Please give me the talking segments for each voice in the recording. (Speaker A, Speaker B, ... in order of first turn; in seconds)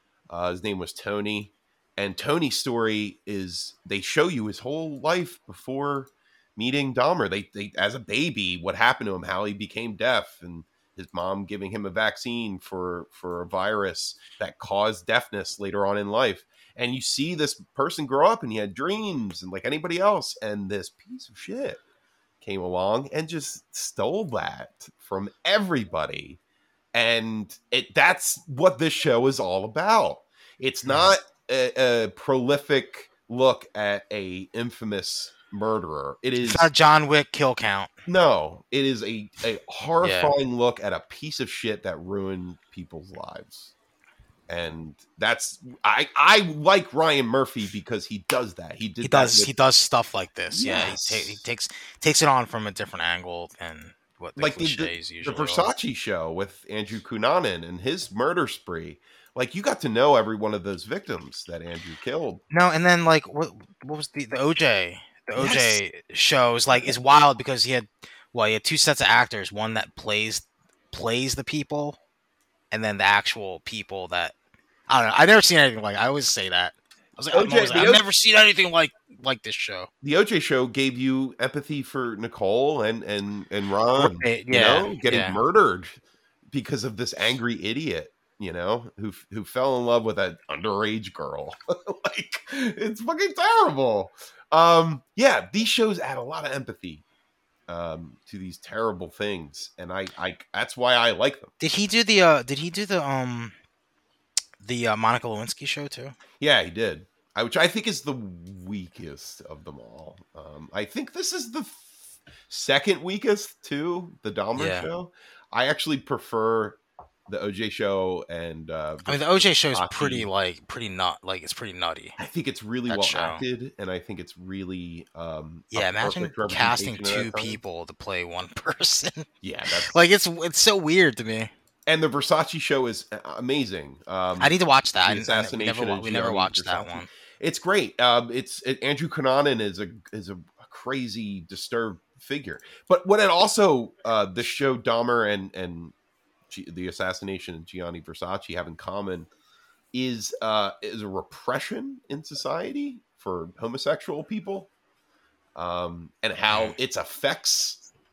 Speaker A: 0.3-21.8, 22.4-26.4, 26.9-36.7, 38.0-43.7, 44.5-49.5, 50.5-51.4, 54.4-62.4, 65.3-65.8, 77.3-78.0, 80.0-86.0, 86.5-97.0, 97.7-101.5, 106.4-111.9, 112.5-120.3, 122.2-127.6, 129.4-130.0, 131.9-145.9, 146.5-149.3, 149.9-154.7, 155.6-157.8
Speaker B: 36.4-37.9, 40.0-40.3, 49.0-55.7, 62.5-72.0, 72.7-74.3, 74.9-79.9, 84.0-85.4, 101.6-103.5, 104.6-106.1, 114.5-114.9, 119.1-122.2, 122.9-123.4, 125.7-129.3, 129.9-131.5, 134.4-137.1, 156.5-156.7